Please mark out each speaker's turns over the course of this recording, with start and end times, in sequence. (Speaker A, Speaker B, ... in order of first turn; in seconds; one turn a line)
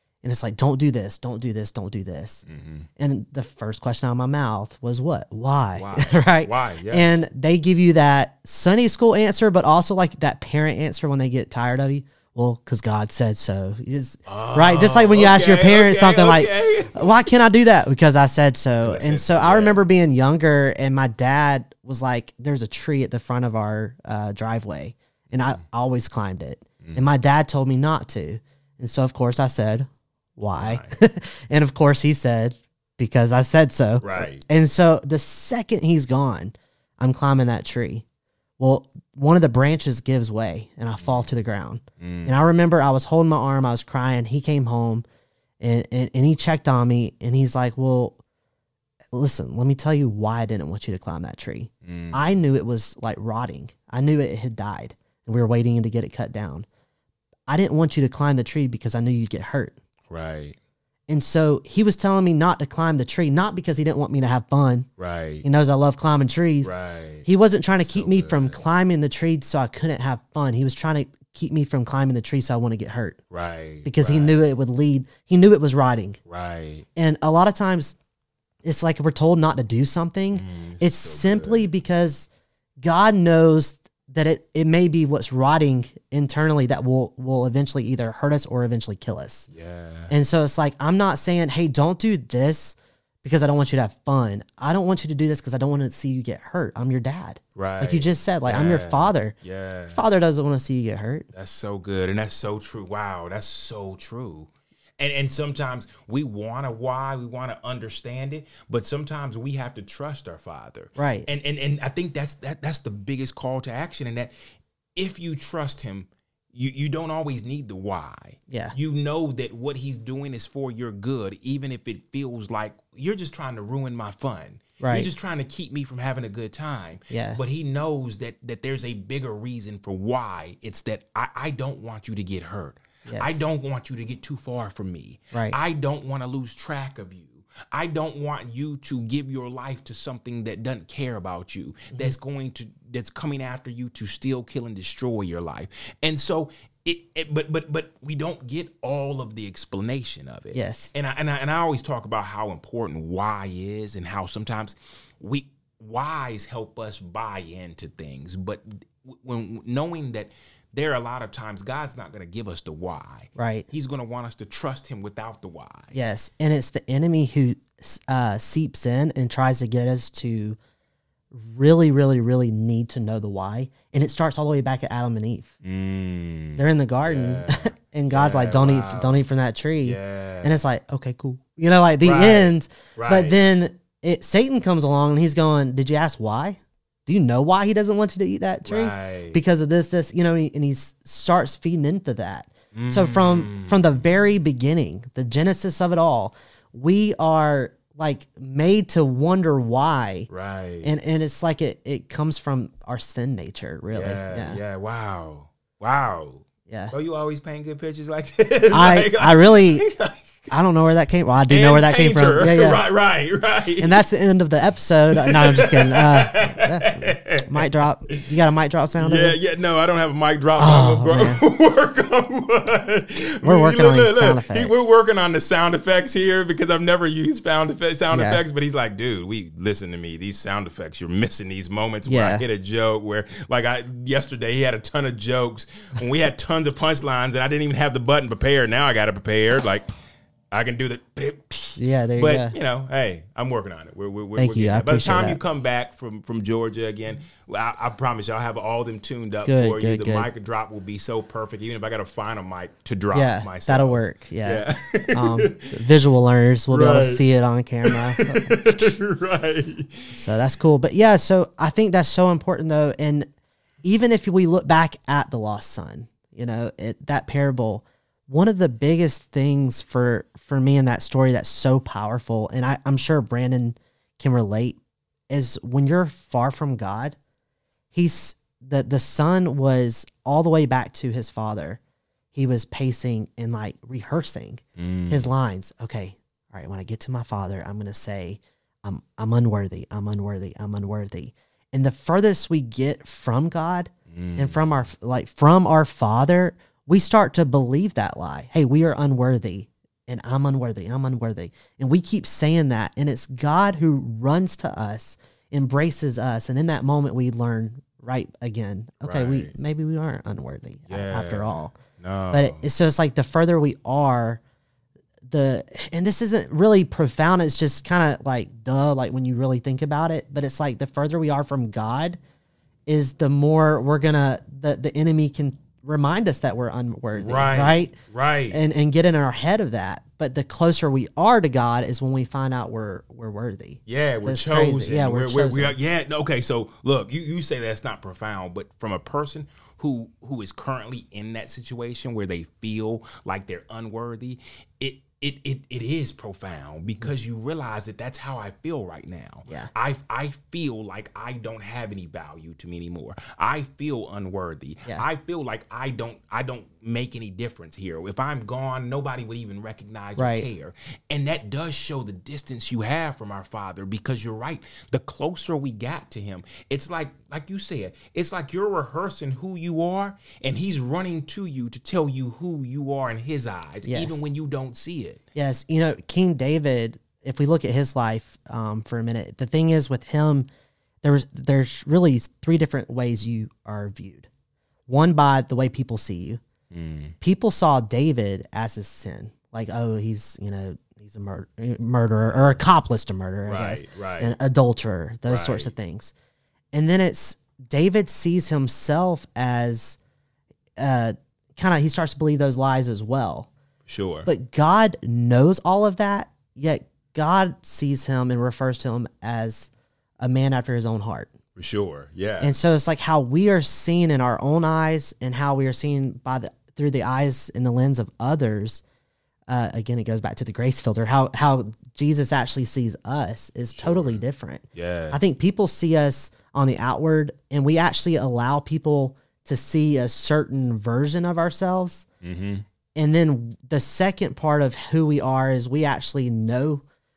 Speaker A: 0.2-2.4
Speaker B: 2.4-2.9
Speaker A: 3.0-38.0
Speaker B: 5.7-7.1
Speaker B: 14.2-17.2
Speaker B: 18.8-19.8
Speaker B: 30.6-30.9
Speaker B: 34.0-34.4
Speaker A: 38.6-45.0
Speaker B: 41.0-41.3
Speaker B: 42.0-42.3
Speaker A: 45.6-48.2
Speaker A: 49.1-56.6
Speaker B: 51.8-52.3
Speaker A: 57.5-59.8
Speaker B: 60.1-60.6
Speaker A: 61.1-64.9
Speaker B: 65.0-65.5
Speaker A: 65.4-66.7
Speaker B: 66.6-67.3
Speaker A: 67.2-73.2
Speaker B: 67.8-68.6
Speaker B: 73.3-74.4
Speaker A: 73.8-76.2
Speaker B: 76.3-76.8
Speaker A: 77.0-78.0
Speaker A: 78.6-82.3
Speaker B: 80.3-81.7
Speaker A: 82.8-89.5
Speaker B: 89.5-90.1
Speaker A: 90.1-99.3
Speaker B: 97.5-100.0
Speaker A: 99.9-101.3
Speaker B: 101.3-114.3
Speaker A: 111.0-111.3
Speaker B: 115.0-165.9
Speaker A: 118.5-118.7
Speaker A: 124.8-125.1
Speaker A: 127.1-127.4
Speaker A: 133.1-133.4
Speaker A: 135.3-135.6
Speaker A: 150.5-150.9
Speaker A: 163.3-163.7
Speaker A: 165.9-170.6
Speaker A: 171.3-175.5
Speaker B: 175.6-179.2
Speaker A: 176.6-200.3
Speaker B: 179.8-180.6
Speaker B: 182.0-183.4
Speaker B: 188.6-189.4
Speaker B: 192.7-193.9
Speaker B: 200.3-200.9
Speaker A: 200.8-204.6
Speaker B: 203.9-210.2
Speaker A: 206.7-206.9
Speaker A: 208.7-209.8
Speaker A: 210.5-212.8
Speaker B: 211.5-214.0
Speaker A: 213.8-219.3
Speaker B: 215.1-218.3
Speaker B: 219.0-239.9
Speaker A: 220.6-221.4
Speaker A: 223.4-224.9
Speaker A: 228.1-228.4
Speaker A: 232.1-232.4
Speaker B: 240.5-255.7
Speaker A: 241.8-242.5
Speaker A: 244.3-245.4
Speaker A: 249.4-250.3
Speaker A: 253.1-259.0
Speaker B: 256.7-257.2
Speaker B: 257.9-260.1
Speaker A: 260.1-263.3
Speaker A: 263.8-277.2
Speaker A: 277.9-281.8
Speaker A: 282.3-311.8
Speaker B: 284.8-285.3
Speaker B: 294.1-294.7
Speaker B: 309.0-309.5
Speaker B: 310.9-312.6
Speaker A: 312.3-314.4
Speaker A: 315.2-322.2
Speaker A: 322.9-327.9
Speaker B: 327.1-328.6
Speaker A: 328.5-335.7
Speaker B: 333.9-375.2
Speaker A: 360.2-360.5
Speaker A: 373.8-374.2
Speaker A: 375.3-380.5
Speaker A: 381.0-384.3
Speaker A: 384.9-386.4
Speaker B: 386.7-387.1
Speaker A: 387.2-396.1
Speaker B: 392.3-392.6
Speaker B: 393.4-394.3
Speaker B: 395.2-395.7
Speaker A: 396.7-400.0
Speaker A: 400.8-403.5
Speaker B: 403.9-404.3
Speaker A: 404.2-411.3
Speaker B: 411.6-412.6
Speaker A: 412.4-418.8
Speaker A: 419.5-432.1
Speaker B: 423.7-425.2
Speaker B: 432.2-432.6
Speaker A: 432.9-436.8